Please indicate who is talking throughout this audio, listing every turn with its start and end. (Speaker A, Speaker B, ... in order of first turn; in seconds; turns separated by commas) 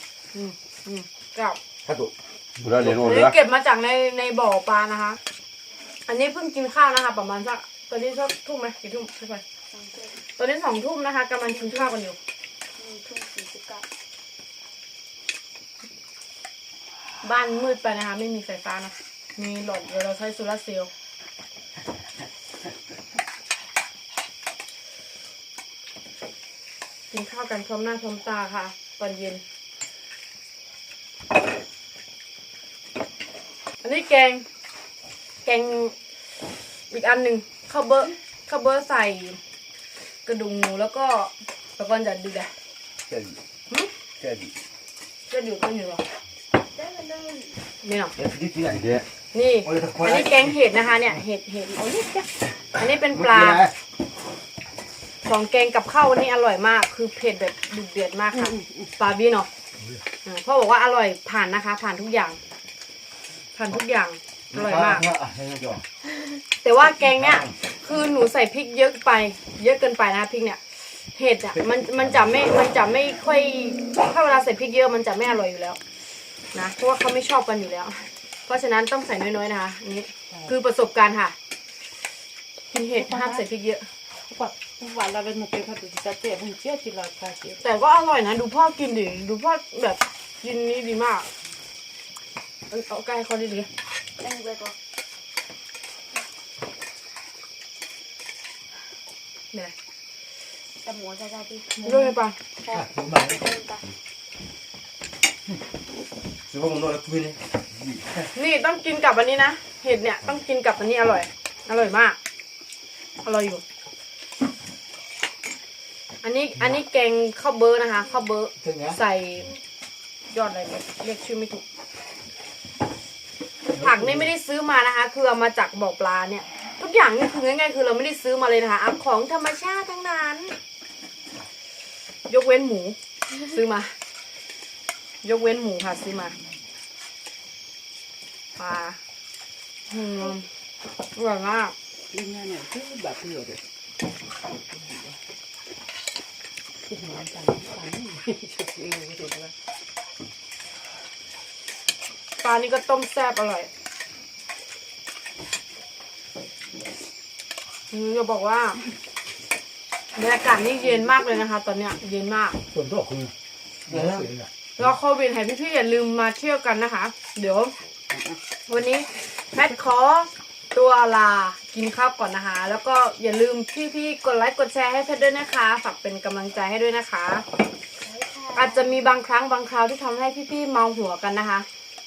Speaker A: 0.3-1.6, Speaker B: 1.8-3.4, Speaker A: 2.9-5.2, Speaker A: 6.1-9.4, Speaker C: 9.7-10.2, Speaker A: 10.4-12.2, Speaker C: 11.5-11.9, Speaker C: 12.8-13.9, Speaker A: 17.2-20.9, Speaker A: 27.1-29.4, Speaker A: 33.8-34.4, Speaker A: 35.4-35.9, Speaker A: 36.9-39.4, Speaker A: 40.3-42.5, Speaker B: 43.1-43.4, Speaker B: 44.2-44.5, Speaker A: 45.3-46.0, Speaker C: 46.7-47.5, Speaker A: 47.8-48.1, Speaker B: 48.1-49.0, Speaker A: 49.3-53.6, Speaker B: 49.6-50.6, Speaker B: 53.1-53.7, Speaker A: 55.2-59.5, Speaker A: 60.2-62.4, Speaker A: 63.5-65.0, Speaker B: 64.5-65.8, Speaker A: 66.6-75.8, Speaker B: 67.0-67.5, Speaker A: 76.5-81.3, Speaker A: 82.7-83.9, Speaker D: 83.0-83.4, Speaker D: 84.3-87.6, Speaker A: 87.6-91.3, Speaker A: 92.7-93.7, Speaker C: 94.2-94.8, Speaker C: 100.8-103.9, Speaker A: 101.8-102.4, Speaker E: 102.7-103.3, Speaker B: 106.5-108.0, Speaker A: 108.3-112.2, Speaker A: 113.2-113.6, Speaker A: 116.2-119.5, Speaker E: 118.6-119.0, Speaker A: 120.3-121.6, Speaker A: 123.7-130.6, Speaker E: 123.8-124.3, Speaker A: 132.3-133.9, Speaker A: 135.2-136.3, Speaker A: 138.6-139.0, Speaker A: 139.9-140.5, Speaker A: 141.2-141.8, Speaker D: 142.1-143.6, Speaker D: 144.6-145.2, Speaker D: 146.9-149.5, Speaker A: 152.4-153.7, Speaker A: 157.9-158.8, Speaker A: 160.2-162.6, Speaker E: 162.7-163.3, Speaker E: 163.9-164.9, Speaker B: 163.9-164.3, Speaker A: 164.8-167.7, Speaker A: 168.7-177.4, Speaker C: 178.0-179.0, Speaker A: 178.6-181.7